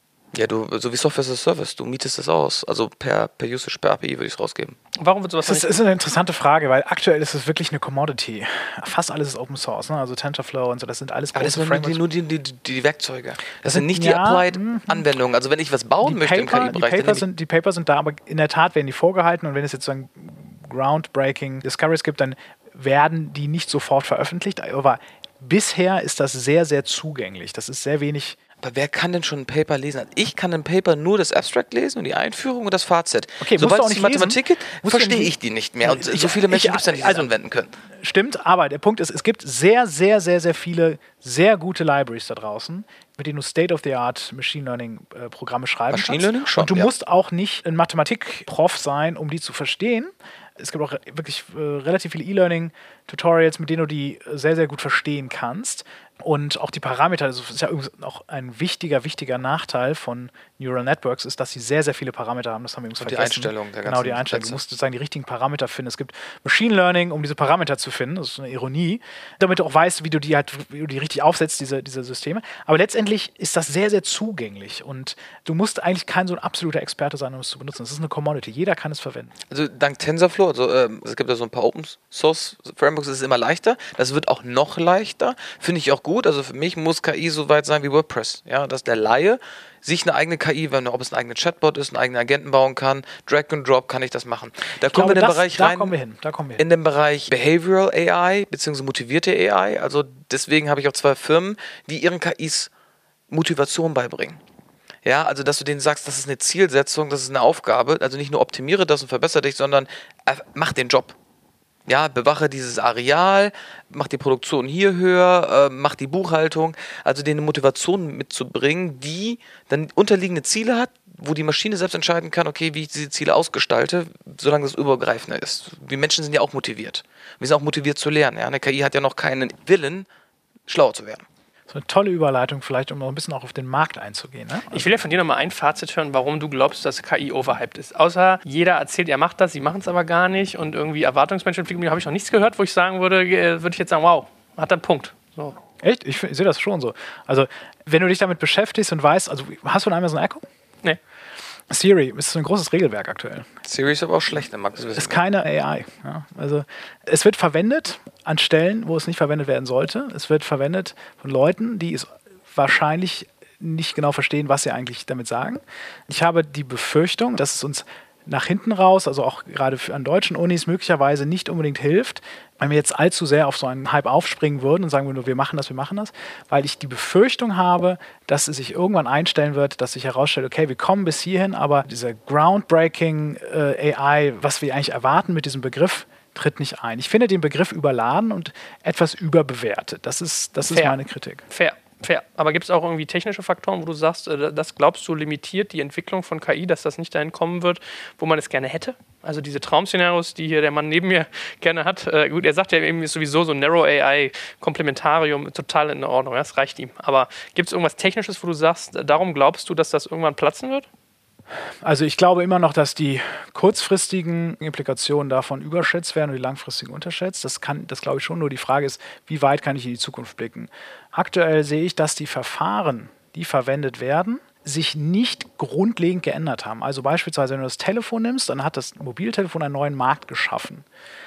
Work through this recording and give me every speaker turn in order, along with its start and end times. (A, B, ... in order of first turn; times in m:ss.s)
0:00.3-0:04.8 A
0:05.0-0:05.8 B
0:05.4-0:12.0 C
0:11.4-0:17.2 A
0:13.6-0:15.1 C
0:16.0-0:28.4 C
0:28.6-0:37.7 A
0:33.4-0:37.3 C
0:38.0-1:19.3 C
0:45.9-0:46.9 A
1:03.0-1:04.6 A
1:19.5-1:35.9 A
1:34.8-1:36.6 C
1:36.6-1:42.7 A
1:43.3-1:44.4 A
1:45.0-1:51.2 A
1:51.9-2:10.1 A
2:10.7-2:11.2 A
2:11.7-2:14.9 C
2:14.7-2:25.6 B
2:25.8-2:30.5 C
2:31.7-2:33.5 C
2:33.6-2:35.2 A
2:34.9-3:11.4 C
3:10.7-3:11.0 B
3:11.5-3:30.9 B
3:31.8-3:50.8 C